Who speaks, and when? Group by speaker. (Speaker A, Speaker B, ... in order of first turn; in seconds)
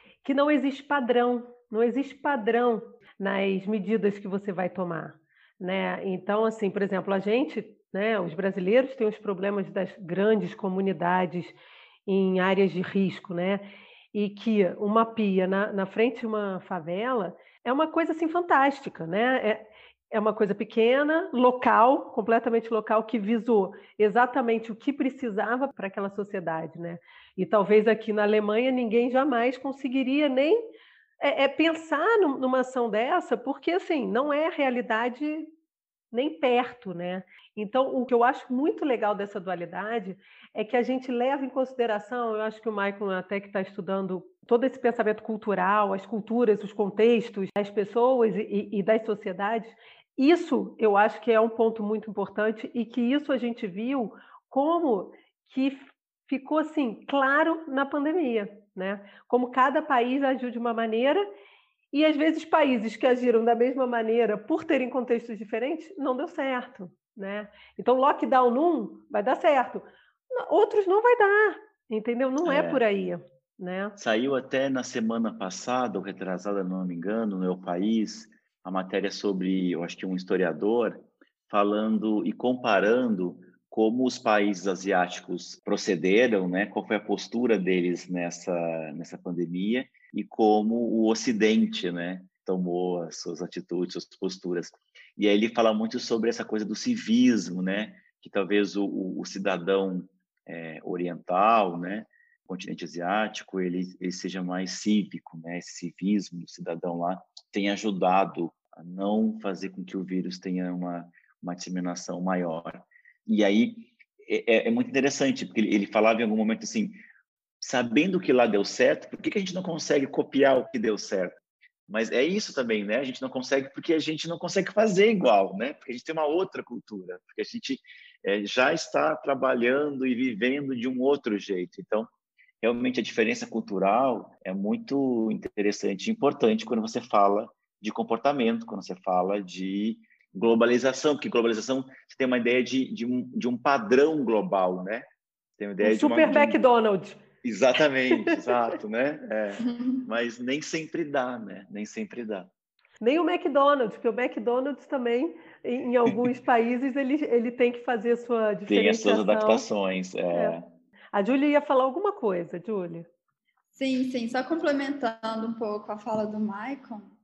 Speaker A: 0.2-30.7, 31.2-35.5, 36.1-61.3, 61.9-74.0, 145.8-147.2, 148.1-148.6, 153.0-159.7, 161.1-163.1
Speaker B: 72.4-72.8, 74.0-117.0, 117.6-132.1, 132.6-145.1, 145.6-146.6, 147.4-152.5, 158.7-160.7
Speaker C: 149.7-150.0, 163.7-167.1